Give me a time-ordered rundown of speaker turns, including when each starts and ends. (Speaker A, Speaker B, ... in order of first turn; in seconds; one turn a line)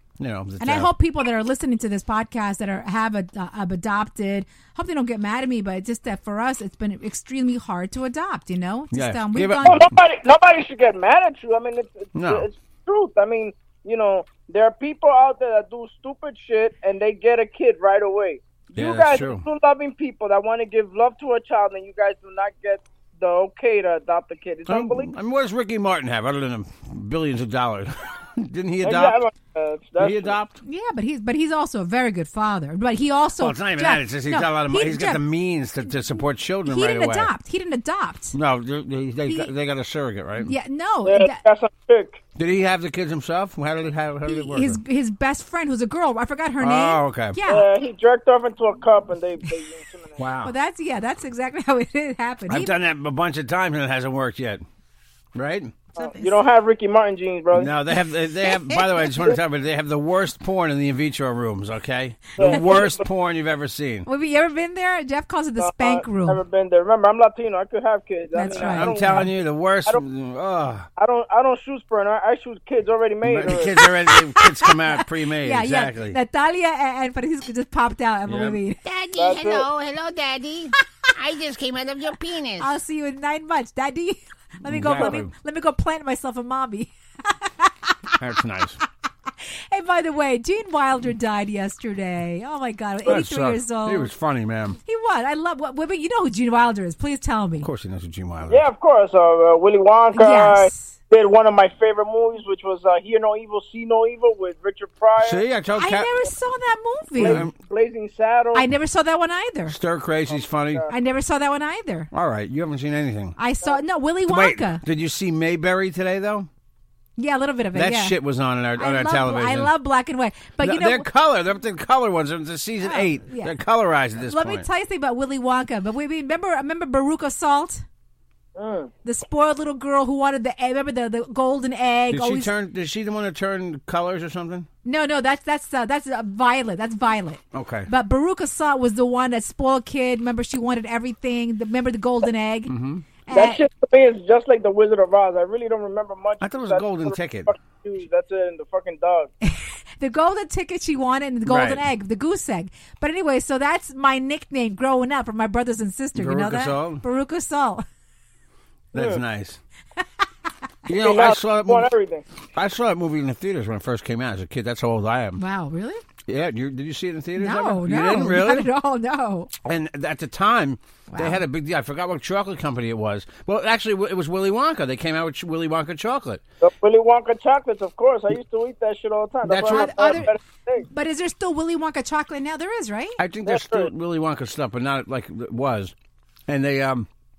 Speaker A: 0.2-0.9
Speaker B: 0.6-9.8
Speaker A: 8.9-9.9
Speaker C: 9.6-25.1
Speaker A: 12.2-12.5
Speaker A: 18.8-19.4
Speaker A: 24.7-29.2
Speaker C: 28.8-30.4
Speaker A: 30.0-30.6
Speaker B: 30.6-35.2
Speaker A: 33.4-37.3
Speaker B: 36.7-38.4
Speaker A: 38.3-40.5
Speaker B: 40.4-41.4
Speaker C: 41.1-42.2
Speaker A: 42.4-44.8
Speaker B: 44.3-47.7
Speaker A: 46.6-47.4
Speaker C: 47.5-50.2
Speaker A: 50.2-50.5
Speaker B: 50.4-52.7
Speaker A: 52.5-54.6
Speaker A: 55.4-55.7
Speaker B: 56.0-56.3
Speaker C: 56.0-57.7
Speaker A: 57.5-64.1
Speaker B: 58.4-59.2
Speaker C: 62.4-63.0
Speaker B: 64.1-66.4
Speaker C: 65.6-69.3
Speaker B: 68.3-69.3
Speaker A: 68.5-70.9
Speaker C: 71.0-73.8
Speaker A: 73.2-76.2
Speaker B: 74.1-74.7
Speaker B: 75.4-78.8
Speaker A: 78.3-78.6
Speaker D: 78.8-82.7
Speaker C: 79.2-79.7
Speaker B: 82.6-87.9
Speaker A: 84.7-85.3
Speaker A: 88.2-88.8
Speaker B: 89.7-94.1
Speaker A: 93.1-94.8
Speaker B: 94.9-97.7
Speaker A: 97.6-98.6
Speaker C: 98.5-105.4
Speaker B: 100.1-101.0
Speaker A: 105.2-106.1
Speaker B: 105.7-107.5
Speaker C: 107.2-108.7
Speaker A: 107.2-107.5
Speaker B: 108.5-109.8
Speaker A: 109.7-110.9
Speaker C: 110.3-110.9
Speaker B: 110.9-112.1
Speaker A: 112.1-113.4
Speaker B: 113.4-114.8
Speaker A: 114.3-116.5
Speaker B: 117.2-118.1
Speaker A: 117.8-119.7
Speaker B: 118.8-121.1
Speaker A: 120.6-124.7
Speaker B: 122.8-123.5
Speaker B: 124.2-127.8
Speaker C: 128.6-128.9
Speaker B: 129.0-132.5
Speaker A: 132.1-134.7
Speaker B: 134.8-142.7
Speaker A: 137.5-137.9
Speaker A: 142.7-143.1
Speaker B: 143.3-143.6
Speaker C: 143.3-149.3
Speaker A: 146.4-147.5
Speaker B: 149.4-157.8
Speaker A: 151.5-151.8
Speaker A: 156.2-157.0
Speaker A: 158.9-159.6
Speaker C: 158.9-159.2
Speaker A: 160.9-161.9
Speaker C: 160.9-162.2
Speaker A: 162.6-165.4
Speaker B: 165.4-166.0
Speaker A: 166.3-168.7
Speaker B: 167.4-169.5
Speaker A: 169.6-176.4
Speaker B: 171.1-171.4
Speaker C: 176.6-180.9
Speaker A: 179.5-180.3
Speaker B: 179.7-180.3
Speaker B: 180.8-183.2
Speaker A: 183.2-185.9
Speaker C: 183.4-183.9
Speaker A: 186.5-187.1